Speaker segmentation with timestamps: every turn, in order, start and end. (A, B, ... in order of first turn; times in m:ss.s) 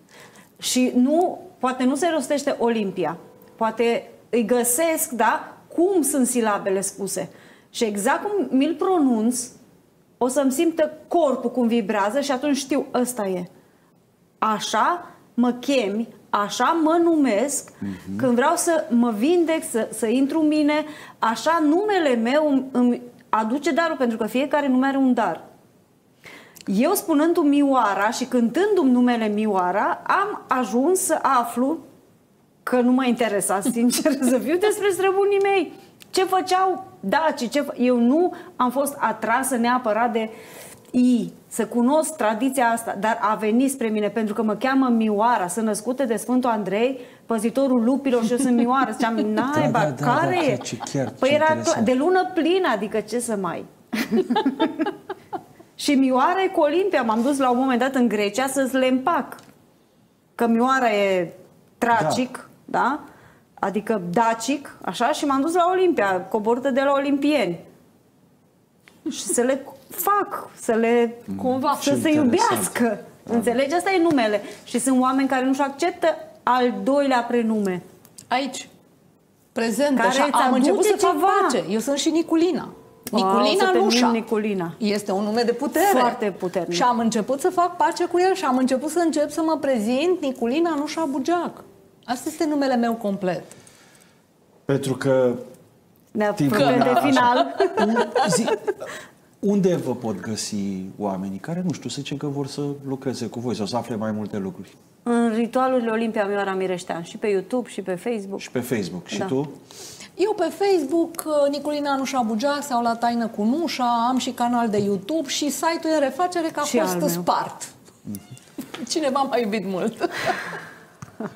0:00.6-0:09.5 A
0:10.2-0:13.5 A
0:14.4-0:25.4 A
0:17.8-0:18.3 B
0:26.7-0:31.8 A
0:32.6-0:40.3 A
0:40.9-0:50.6 A
0:49.5-0:51.9 B
0:51.2-0:54.9 A
0:55.8-0:59.4 A
1:00.4-1:03.0 A
1:01.9-1:02.2 B
1:03.6-1:07.6 A
1:09.0-1:17.8 A
1:11.3-1:12.8 B
1:11.4-1:12.0 C
1:18.3-1:18.7 C
1:19.5-1:24.2 C
1:20.0-1:21.6 A
1:23.1-1:24.8 A
1:24.8-1:26.2 C
1:25.8-1:26.8 A
1:26.7-1:33.5 C
1:34.7-1:35.4 B
1:36.1-1:38.0 A
1:36.4-1:38.8 B
1:39.4-1:44.7 B
1:45.0-1:48.4 A
1:48.4-1:49.6 B
1:50.2-1:57.7 C
1:56.6-1:57.2 A
1:58.7-2:00.4 C